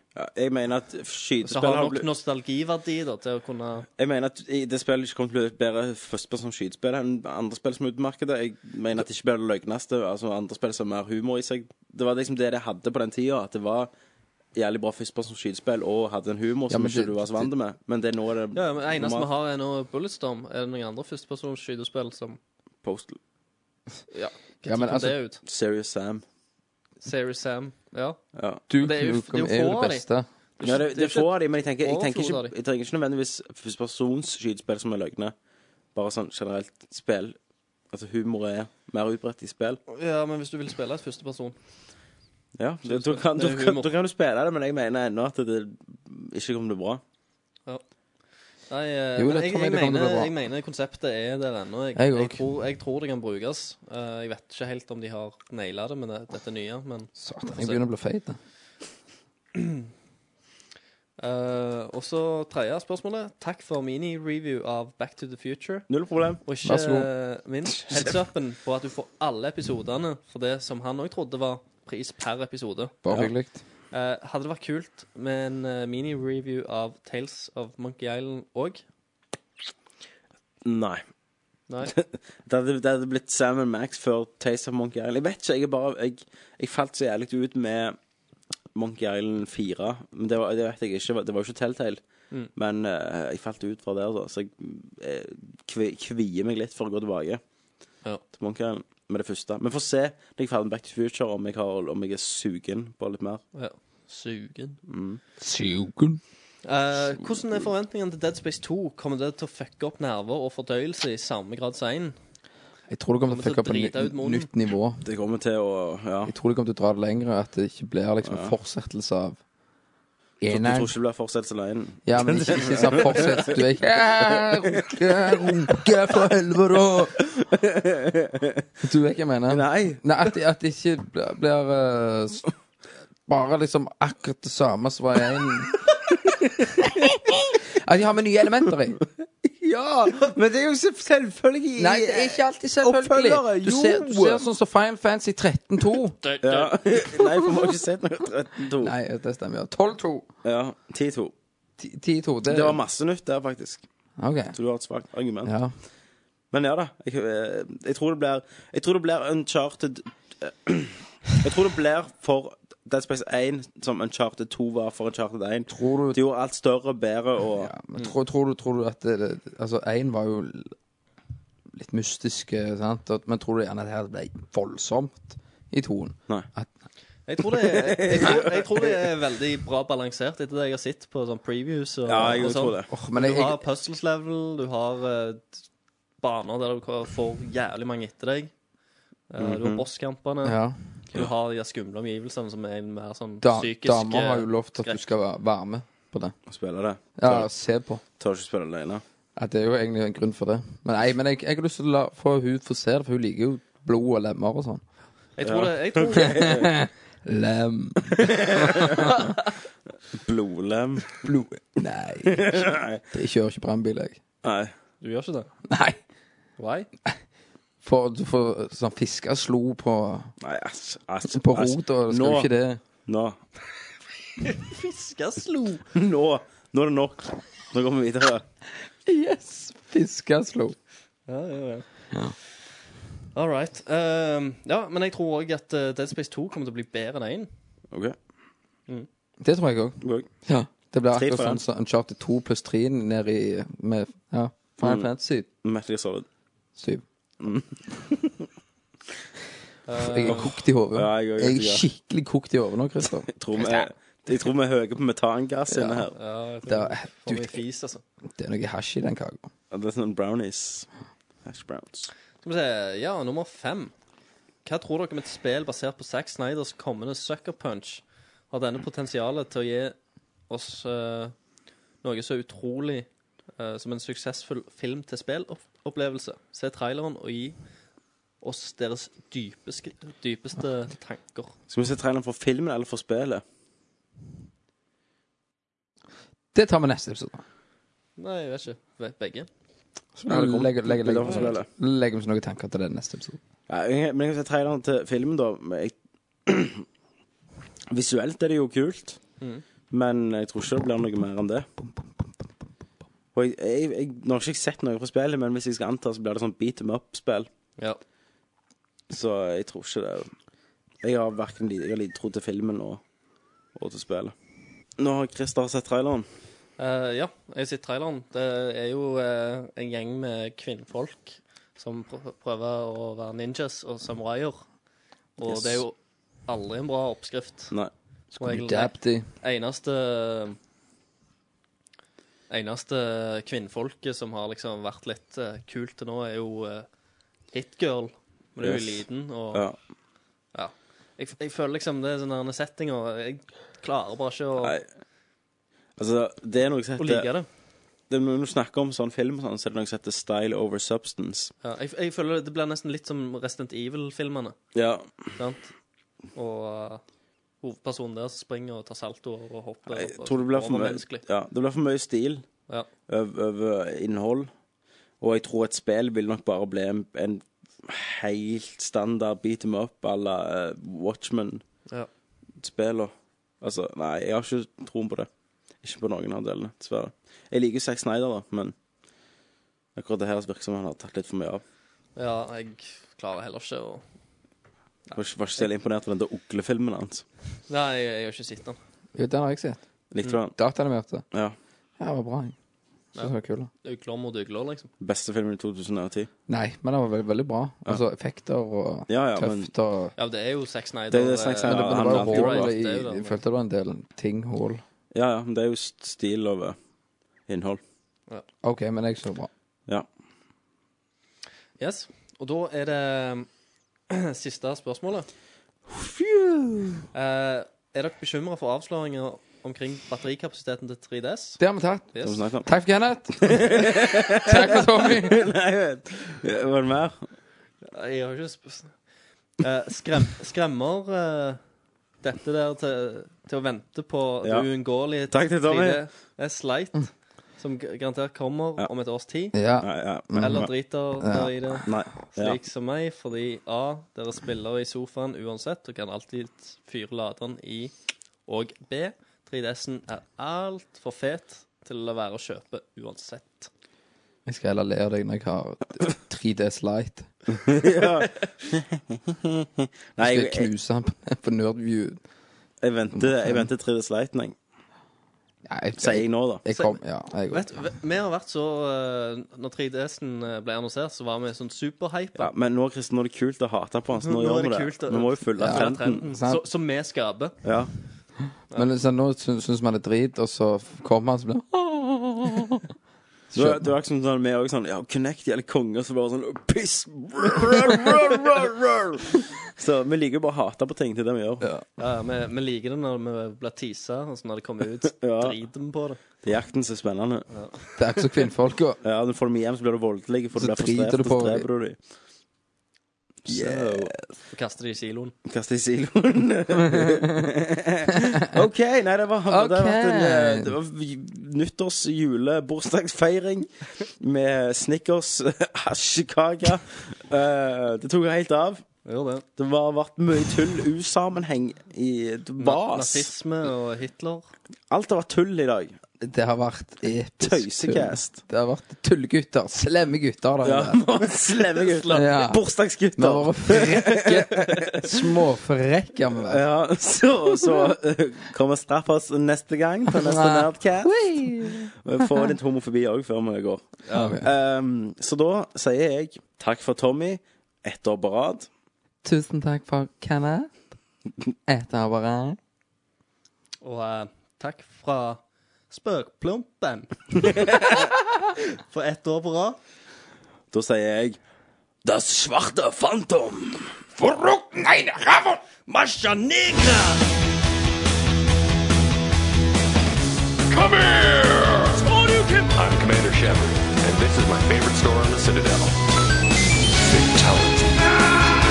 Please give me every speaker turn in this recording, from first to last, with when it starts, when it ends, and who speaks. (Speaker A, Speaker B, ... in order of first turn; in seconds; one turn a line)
Speaker A: 0.1-2.1
Speaker B: 1.4-3.9
Speaker A: 4.0-13.9
Speaker A: 14.5-19.3
Speaker C: 16.7-17.5
Speaker B: 18.5-22.4
Speaker A: 22.8-23.2
Speaker B: 24.1-25.4
Speaker C: 24.7-25.2
Speaker A: 25.4-26.2
Speaker B: 27.0-28.2
Speaker A: 28.3-28.6
Speaker C: 28.7-30.3
Speaker B: 28.7-30.1
Speaker B: 30.6-32.5
Speaker A: 30.6-35.3
Speaker A: 35.9-37.3
Speaker A: 37.9-39.8
Speaker B: 39.9-41.5
Speaker A: 42.6-47.0
Speaker B: 42.9-43.9
Speaker B: 48.7-57.8
Speaker C: 49.2-50.3
Speaker C: 52.0-52.4
Speaker C: 57.2-58.4
Speaker B: 59.5-59.9
Speaker B: 61.2-65.9
Speaker A: 65.9-66.4
Speaker B: 66.4-72.9
Speaker C: 66.6-67.1
Speaker C: 73.0-73.6
Speaker B: 73.9-78.8
Speaker A: 80.6-81.0
Speaker A: 81.8-88.0
Speaker A: 88.7-92.0
Speaker A: 92.5-97.4
Speaker A: 98.3-103.4
Speaker B: 103.5-104.8
Speaker A: 104.9-105.2
Speaker C: 105.4-106.2
Speaker B: 106.6-112.2
Speaker C: 112.9-115.0
Speaker B: 113.3-114.5
Speaker A: 115.0-116.3
Speaker C: 116.2-119.4
Speaker A: 118.2-118.5
Speaker C: 120.4-120.9
Speaker A: 120.5-123.6
Speaker C: 122.0-127.4
Speaker A: 124.3-124.9
Speaker A: 127.4-128.6
Speaker C: 128.8-132.4
Speaker A: 129.5-130.0
Speaker C: 133.3-135.8
Speaker C: 136.8-139.0
Speaker A: 139.6-144.4
Speaker C: 141.8-146.2
Speaker B: 146.2-146.8
Speaker A: 146.4-148.9
Speaker C: 148.8-150.3
Speaker A: 150.4-151.3
Speaker C: 151.8-152.8
Speaker A: 152.5-153.8
Speaker C: 154.2-154.6
Speaker A: 154.5-155.5
Speaker C: 155.4-155.7
Speaker A: 156.5-167.7
Speaker C: 165.7-166.2
Speaker C: 167.6-170.7
Speaker C: 171.7-176.7
Speaker B: 177.3-185.6
Speaker A: 177.7-178.9
Speaker A: 182.1-182.9
Speaker C: 182.9-183.6
Speaker B: 186.2-188.5
Speaker B: 189.3-190.6
Speaker A: 189.4-189.8
Speaker C: 190.4-190.8
Speaker B: 191.1-195.0
Speaker C: 193.4-196.3
Speaker A: 196.5-197.5
Speaker C: 197.2-198.0
Speaker A: 198.2-199.0
Speaker C: 199.3-204.8
Speaker B: 205.3-206.4
Speaker A: 205.4-206.8
Speaker C: 206.1-209.1
Speaker A: 208.2-209.1
Speaker A: 210.1-211.2
Speaker C: 211.2-214.2
Speaker A: 212.3-213.0
Speaker A: 214.4-214.7
Speaker B: 215.0-215.5
Speaker C: 215.7-216.0
Speaker B: 216.6-216.9
Speaker C: 217.8-220.3
Speaker A: 220.4-222.5
Speaker C: 221.3-222.8
Speaker A: 223.1-223.4
Speaker B: 224.4-225.8
Speaker A: 225.9-228.4
Speaker C: 229.1-230.8
Speaker B: 231.3-231.8
Speaker B: 233.3-237.5
Speaker C: 239.4-245.4
Speaker A: 240.0-240.3
Speaker A: 241.1-241.6
Speaker A: 244.8-245.1
Speaker A: 245.6-246.2
Speaker C: 246.8-247.0
Speaker A: 247.4-248.4
Speaker B: 249.9-250.5
Speaker C: 250.0-253.3
Speaker A: 250.2-251.8
Speaker A: 253.3-256.1
Speaker C: 255.7-256.1
Speaker B: 256.1-258.0
Speaker C: 256.7-257.6
Speaker C: 258.4-259.5
Speaker A: 259.7-260.9
Speaker A: 261.4-262.1
Speaker B: 262.4-263.9
Speaker B: 264.6-269.9
Speaker B: 270.5-271.3
Speaker B: 272.0-277.6
Speaker B: 278.4-281.5
Speaker A: 281.7-283.4
Speaker C: 286.5-287.4
Speaker B: 288.2-289.5
Speaker C: 290.1-293.4
Speaker A: 290.3-291.7
Speaker A: 293.7-295.9
Speaker A: 296.4-296.8
Speaker A: 297.9-299.2
Speaker A: 299.9-301.7
Speaker A: 303.3-307.5
Speaker A: 309.1-310.3
Speaker A: 311.0-313.0
Speaker A: 313.7-314.3
Speaker A: 315.0-316.3
Speaker B: 316.8-324.6
Speaker B: 325.4-327.7
Speaker A: 325.4-325.8
Speaker C: 328.3-329.3
Speaker B: 328.4-330.6
Speaker B: 332.5-336.9
Speaker B: 337.5-339.6
Speaker A: 338.6-339.8
Speaker B: 340.5-344.8
Speaker A: 346.0-347.3
Speaker B: 347.0-347.4
Speaker A: 348.1-351.5
Speaker B: 351.6-354.6
Speaker A: 354.7-355.0
Speaker B: 355.4-355.7
Speaker B: 356.3-357.0
Speaker B: 357.6-361.2
Speaker A: 359.9-362.5
Speaker A: 363.1-364.5
Speaker A: 365.2-371.6
Speaker A: 372.6-375.3
Speaker A: 375.8-378.7
Speaker A: 379.9-381.6
Speaker B: 382.1-384.0
Speaker A: 385.1-387.2
Speaker B: 387.7-388.8
Speaker C: 389.1-389.8
Speaker A: 390.1-390.6
Speaker C: 390.5-391.2
Speaker C: 392.0-392.5
Speaker C: 393.1-393.7
Speaker B: 393.1-394.9
Speaker A: 395.0-396.3
Speaker C: 396.5-400.1
Speaker A: 399.1-399.7
Speaker B: 400.2-403.4
Speaker A: 401.1-402.7
Speaker C: 401.6-404.8
Speaker A: 405.1-406.8
Speaker A: 407.5-407.8
Speaker C: 408.6-409.5
Speaker B: 411.8-413.5
Speaker B: 414.1-415.3
Speaker B: 417.1-421.6
Speaker C: 421.6-425.5
Speaker A: 422.2-422.7
Speaker A: 423.4-427.2
Speaker B: 427.8-428.9
Speaker B: 429.6-431.6
Speaker B: 432.2-439.6
Speaker A: 435.3-436.0
Speaker C: 439.5-440.7
Speaker A: 439.8-440.7
Speaker B: 440.4-447.9
Speaker C: 441.2-441.9
Speaker A: 441.8-442.6
Speaker B: 448.5-453.7
Speaker C: 454.4-457.3
Speaker A: 457.6-460.7
Speaker C: 460.2-462.2
Speaker A: 462.8-464.5
Speaker C: 463.1-463.7
Speaker C: 465.6-467.7
Speaker A: 466.0-466.6
Speaker B: 467.5-472.5
Speaker A: 472.3-476.2
Speaker B: 474.1-477.6
Speaker C: 475.6-476.6
Speaker A: 477.6-477.9
Speaker C: 478.7-482.8
Speaker C: 483.5-483.9
Speaker A: 483.5-491.7
Speaker B: 492.0-496.2
Speaker A: 495.2-495.6
Speaker A: 496.4-497.4
Speaker C: 498.0-499.0
Speaker A: 499.0-502.0
Speaker C: 500.6-501.7
Speaker A: 503.5-504.1
Speaker C: 503.5-504.0
Speaker B: 504.5-505.3
Speaker A: 505.4-518.8
Speaker C: 508.1-508.6
Speaker C: 509.5-510.8
Speaker B: 519.0-519.4
Speaker A: 519.6-523.3
Speaker B: 522.6-524.5
Speaker A: 524.9-526.0
Speaker C: 526.2-531.0
Speaker A: 527.4-528.4
Speaker A: 530.6-535.2
Speaker C: 532.0-532.6
Speaker C: 533.1-536.6
Speaker A: 536.3-543.9
Speaker C: 540.1-542.5
Speaker B: 544.1-544.4
Speaker C: 544.1-544.5
Speaker A: 544.4-548.7
Speaker C: 549.2-550.7
Speaker C: 551.7-552.6
Speaker B: 553.8-558.0
Speaker A: 557.4-557.9
Speaker B: 558.9-559.8
Speaker A: 560.7-561.4
Speaker A: 562.1-563.9
Speaker C: 564.1-565.6
Speaker B: 565.9-567.2
Speaker D: 570.7-572.2
Speaker D: 572.7-576.0
Speaker D: 576.9-578.1